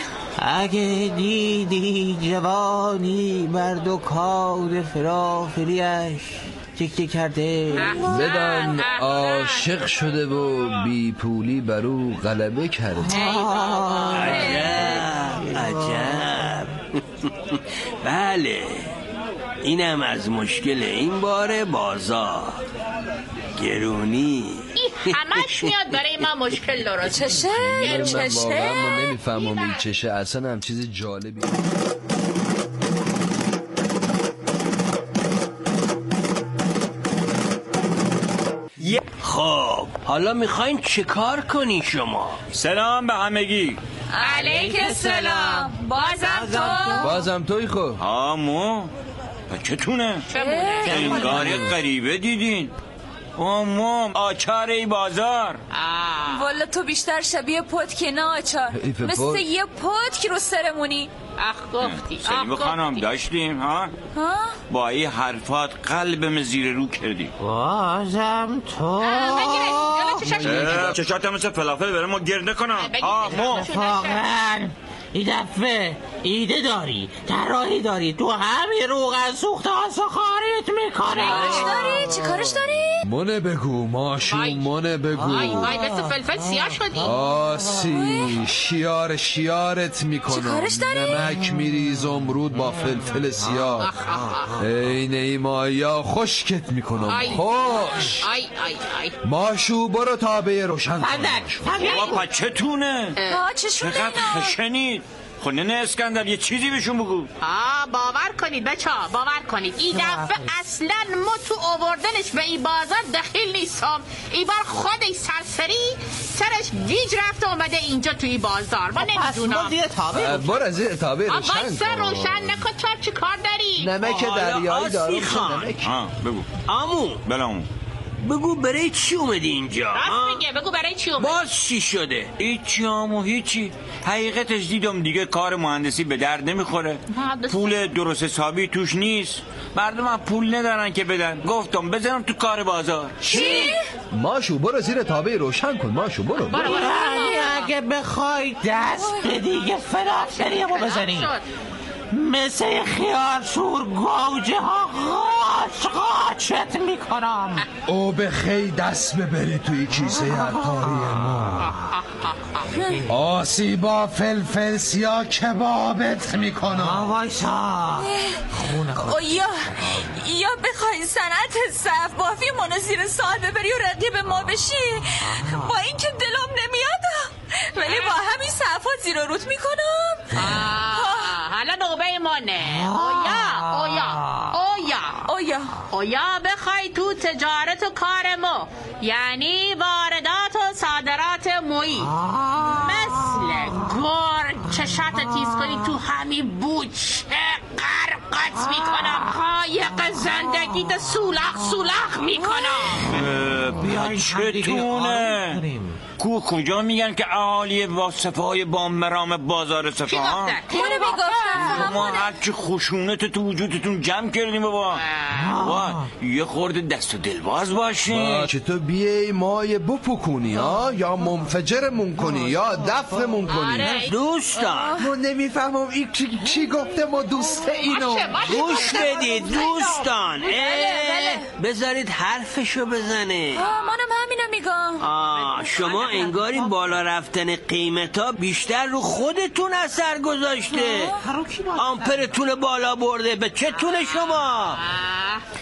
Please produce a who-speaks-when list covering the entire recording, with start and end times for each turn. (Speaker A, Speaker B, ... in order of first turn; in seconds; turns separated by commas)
Speaker A: 0.4-8.3, Speaker B: 7.7-9.7, Speaker C: 8.0-13.2, Speaker A: 13.0-16.3, Speaker B: 13.1-14.9, Speaker D: 14.2-18.9, Speaker E: 14.2-14.7, Speaker D: 19.6-22.6, Speaker D: 23.5-25.7, Speaker B: 24.7-28.6, Speaker E: 27.1-29.0, Speaker C: 27.5-31.6, Speaker B: 29.3-29.8, Speaker D: 39.2-42.4, Speaker F: 42.5-43.8, Speaker E: 44.1-47.1, Speaker B: 44.2-47.0, Speaker A: 44.4-45.6, Speaker A: 46.2-47.1, Speaker C: 47.0-48.0, Speaker F: 48.0-48.9, Speaker F: 49.5-50.2, Speaker B: 50.3-51.4, Speaker E: 50.3-51.4, Speaker F: 50.8-52.7, Speaker C: 51.0-51.8, Speaker F: 53.4-55.6, Speaker B: 55.7-56.5, Speaker E: 56.3-61.1, Speaker C: 58.7-59.4, Speaker B: 61.4-63.0, Speaker F: 61.8-63.9, Speaker E: 64.1-64.6, Speaker F: 64.7-67.3, Speaker A: 67.4-70.8, Speaker B: 69.0-71.0, Speaker F: 70.4-73.7, Speaker B: 72.8-74.2, Speaker A: 73.5-82.1, Speaker B: 81.1-82.1, Speaker E: 81.2-83.0, Speaker C: 82.1-85.7, Speaker B: 84.3-84.7, Speaker A: 85.1-87.8, Speaker B: 85.2-87.1, Speaker C: 87.0-93.9, Speaker E: 87.9-88.3, Speaker E: 90.3-91.3, Speaker A: 92.5-94.6, Speaker B: 93.8-94.5, Speaker C: 94.6-98.2, Speaker B: 97.1-99.2, Speaker C: 99.2-101.8, Speaker A: 101.0-102.2, Speaker B: 101.8-102.2, Speaker F: 101.8-103.2, Speaker B: 103.2-103.4, Speaker E: 103.3-104.5, Speaker F: 103.8-107.3, Speaker B: 107.4-119.8, Speaker A: 109.9-110.5, Speaker A: 119.0-120.6, Speaker C: 120.1-122.6, Speaker B: 121.3-123.9, Speaker C: 123.8-125.9, Speaker D: 124.0-125.7, Speaker F: 125.8-126.5, Speaker D: 126.7-127.2, Speaker F: 127.2-127.7, Speaker D: 128.2-130.4, Speaker B: 129.9-131.4, Speaker D: 131.2-132.3, Speaker F: 132.4-143.4, Speaker B: 137.1-137.7, Speaker E: 143.2-143.8, Speaker B: 143.3-143.7, Speaker C: 144.1-146.7, Speaker B: 146.5-147.7, Speaker A: 146.5-151.3, Speaker E: 149.0-149.2, Speaker B: 150.2-151.4, Speaker A: 152.1-157.6, Speaker C: 157.8-161.7, Speaker A: 160.0-161.6, Speaker B: 161.7-162.7, Speaker A: 162.7-163.1, Speaker C: 163.1-167.1, Speaker A: 166.7-169.4, Speaker E: 168.0-168.4, Speaker E: 169.0-181.3, Speaker A: 175.2-175.7, Speaker B: 177.8-178.2, Speaker B: 180.3-185.3, Speaker A: 182.6-184.5, Speaker E: 185.3-185.7, Speaker B: 185.9-192.1, Speaker A: 192.1-193.8, Speaker B: 192.7-203.1, Speaker A: 198.6-199.3, Speaker A: 199.9-202.2, Speaker A: 202.8-206.0, Speaker F: 203.1-205.6, Speaker F: 206.2-210.6, Speaker B: 210.1-212.2, Speaker E: 210.7-212.3, Speaker F: 211.6-215.0, Speaker B: 214.9-215.6, Speaker A: 215.3-216.1, Speaker F: 215.6-218.5, Speaker C: 218.1-224.1, Speaker A: 220.7-221.3, Speaker A: 222.2-223.7, Speaker B: 223.5-224.1, Speaker D: 224.1-225.0, Speaker E: 224.6-225.1, Speaker C: 225.0-228.9, Speaker B: 227.9-230.1, Speaker D: 228.4-233.6, Speaker E: 230.4-231.5, Speaker E: 233.5-235.0, Speaker B: 233.6-233.9, Speaker D: 235.0-241.1, Speaker B: 235.3-236.4, Speaker E: 240.7-241.2, Speaker A: 241.2-242.3, Speaker D: 241.8-244.8, Speaker B: 243.8-245.4